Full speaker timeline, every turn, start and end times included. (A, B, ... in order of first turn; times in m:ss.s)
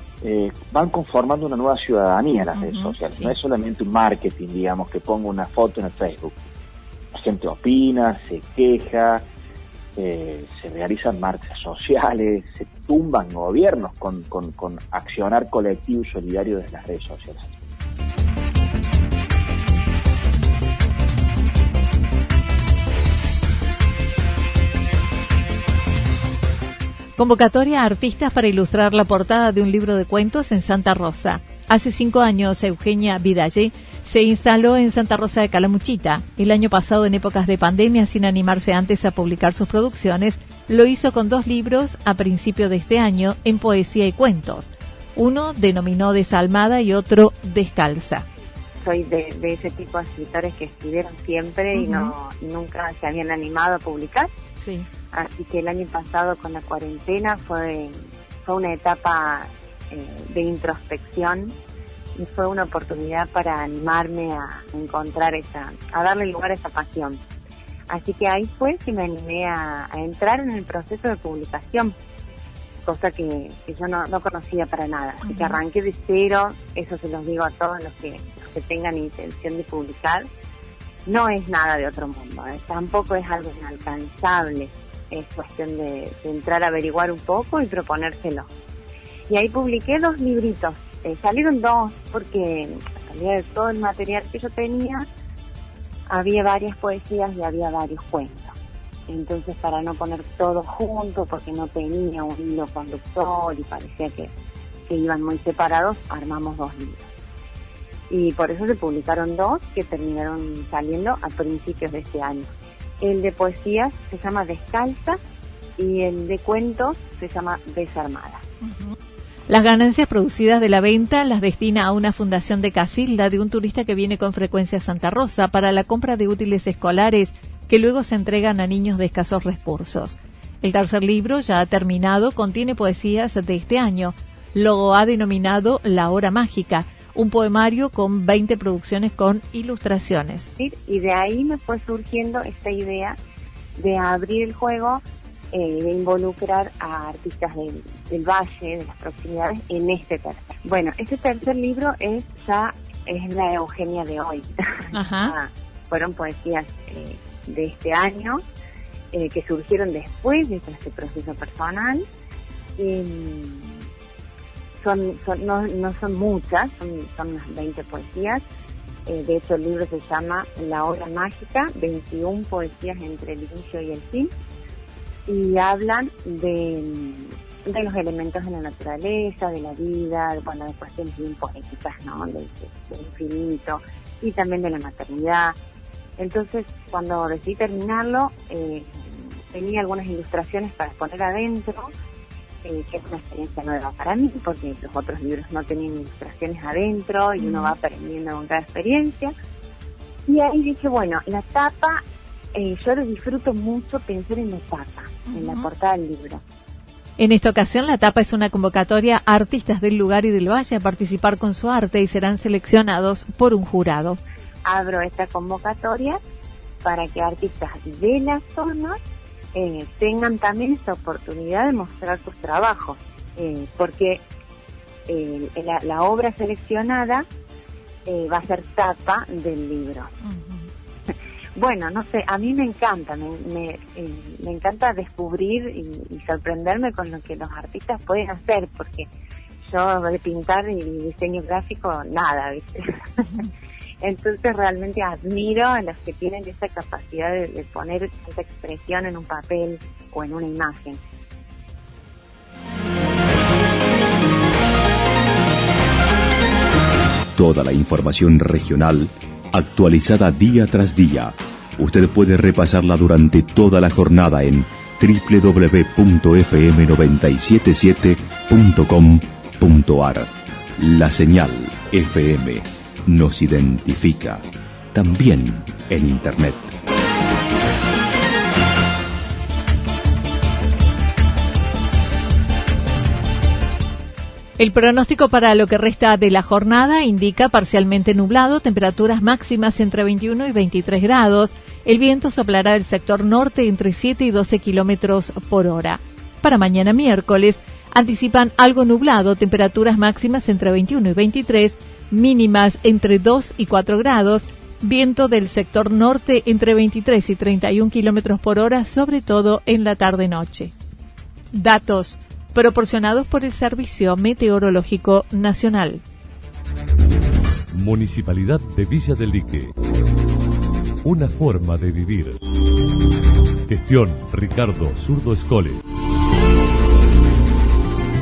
0:00.2-0:06.3 A
0:02.5-0:03.3 B
0:07.1-0:09.2 A
0:10.0-0:17.5 A
0:27.2-0:48.3 B
0:48.8-0:54.3 C
0:51.7-0:52.1 B
0:54.6-0:54.8 B
0:55.1-1:01.6 C
1:02.2-1:07.2 C
1:07.9-1:11.9 C
1:12.8-1:20.3 C
1:15.2-1:15.6 B
1:21.0-1:28.5 C
1:29.3-1:35.0 C
1:36.1-1:38.5 C
1:39.1-1:44.3 C
1:44.9-1:47.1 C
1:48.1-1:55.2 C
1:55.8-1:58.4 C
1:58.6-1:58.9 B
1:59.5-2:20.5 B
2:20.6-2:23.2 C
2:23.8-2:38.4 C
2:34.9-2:35.3 B
2:39.1-2:42.0 C
2:42.8-2:43.9 C
2:44.8-2:48.4 C
2:49.0-2:54.3 C
2:55.3-3:05.6 C
3:06.2-3:11.9 C
3:12.6-3:19.3 C
3:17.4-3:17.7 B
3:20.3-3:22.0 C
3:22.5-3:26.4 C
3:25.3-3:25.7 B
3:27.2-3:34.2 B
3:34.6-3:36.2 C
3:36.8-3:39.0 C
3:39.5-3:44.2 C
3:45.1-3:47.2 C
3:48.0-3:50.1 C
3:50.2-3:50.7 B
3:51.6-3:59.1 C
3:59.7-4:03.4 C
4:04.0-4:11.0 C
4:17.3-4:36.7 D
4:44.6-5:10.7 B
5:11.5-5:16.0 B
5:17.7-5:19.7 E
5:21.0-5:22.4 E
5:23.7-5:25.8 E